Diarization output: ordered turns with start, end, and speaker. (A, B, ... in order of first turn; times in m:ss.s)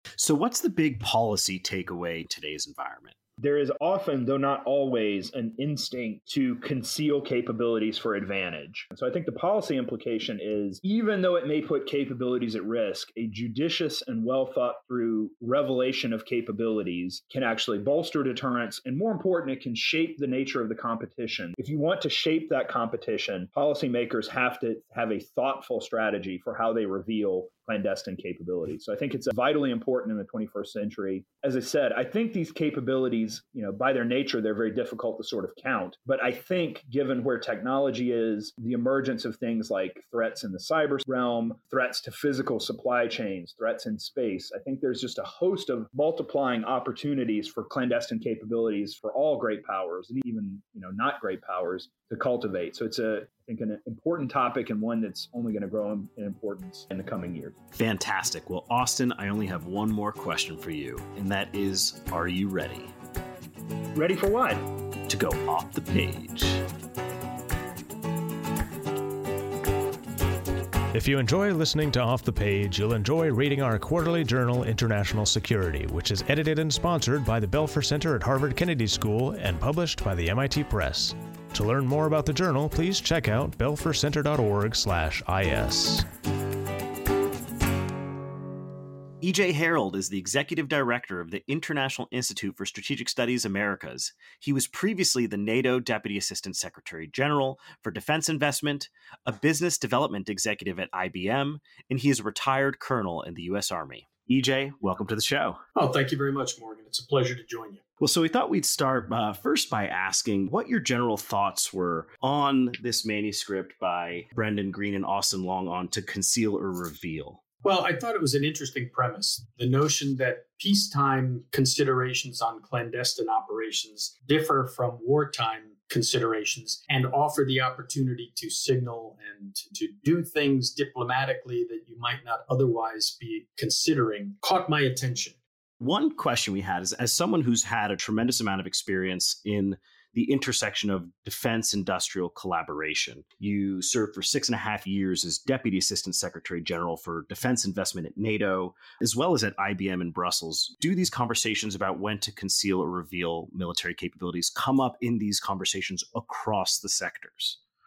0:00.2-0:03.1 A
0:03.4-0:57.6 B
0:57.7-1:02.9 A
1:03.9-1:04.7 B
1:05.1-1:06.6 A
1:10.9-1:26.0 C
1:29.2-1:45.6 A
1:45.7-1:47.8 D
1:48.0-1:57.4 A
1:57.6-2:15.4 D
2:15.8-2:37.6 A